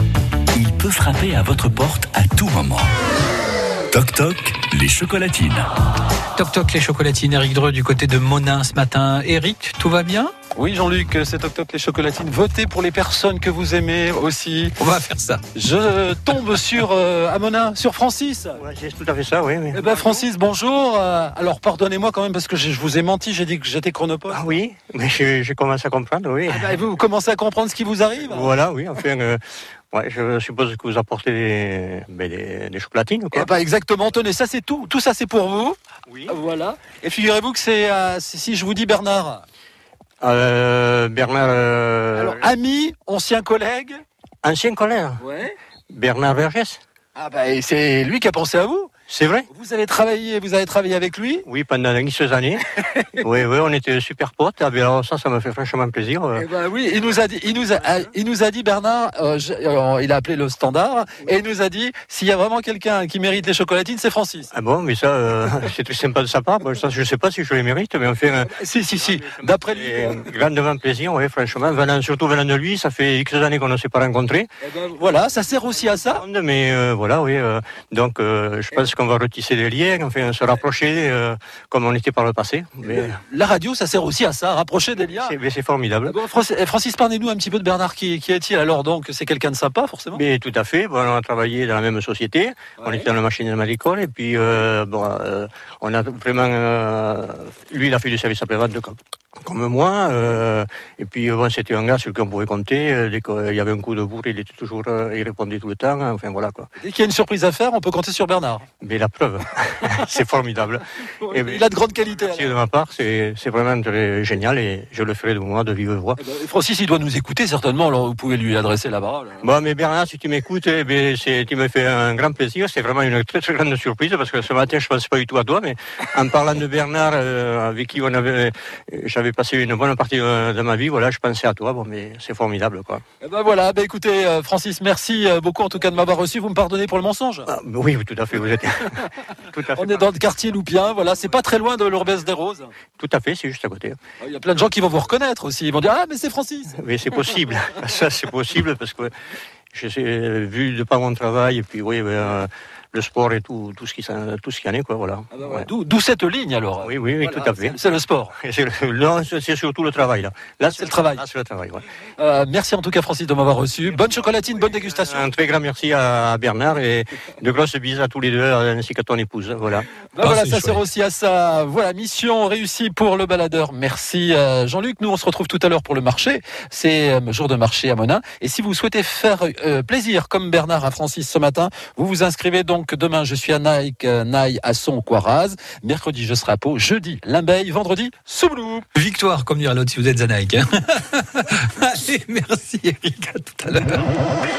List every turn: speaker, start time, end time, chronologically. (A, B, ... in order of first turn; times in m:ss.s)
0:00.5-0:02.9 A
0:03.9-0:05.7 A
0:06.3-0:10.3 B
0:10.5-0:14.8 C
0:14.8-0:15.4 B
0:15.5-0:18.6 C
0:18.6-0:20.2 D
0:19.7-0:24.4 C
0:24.3-0:26.8 D
0:26.5-0:28.5 C
0:28.2-0:29.4 D
0:29.9-0:33.5 D
0:33.3-0:39.4 C
0:36.1-0:36.3 D
0:40.2-0:42.4 D
0:42.1-0:44.0 C
0:44.4-0:45.2 D
0:45.2-0:45.5 C
0:45.9-0:46.8 D
0:47.2-0:48.9 C
0:49.1-0:49.5 D
0:49.5-0:51.4 C
0:51.4-0:52.6 D
0:53.2-0:56.4 D
0:56.4-1:04.5 C
1:04.5-1:14.5 D
1:08.4-1:10.2 C
1:14.6-1:16.2 C
1:15.9-1:23.2 D
1:22.8-1:25.3 C
1:25.0-1:26.2 D
1:26.0-1:30.2 C
1:30.1-1:46.7 D
1:32.8-1:33.1 C
1:46.8-1:48.6 C
1:48.8-1:56.2 D
1:51.2-1:52.6 C
1:56.2-1:59.4 C
1:59.4-2:13.0 D
2:13.2-2:17.5 C
2:17.5-2:20.1 D
2:19.7-2:22.7 C
2:23.0-2:24.0 D
2:24.2-2:26.8 C
2:26.7-2:29.1 D
2:29.7-2:35.7 D
2:35.3-2:38.3 C
2:36.8-2:37.8 D
2:38.4-2:41.8 D
2:40.7-2:41.2 C
2:42.2-2:45.2 C
2:44.7-2:49.9 D
2:50.1-3:08.9 C
3:08.9-3:14.1 B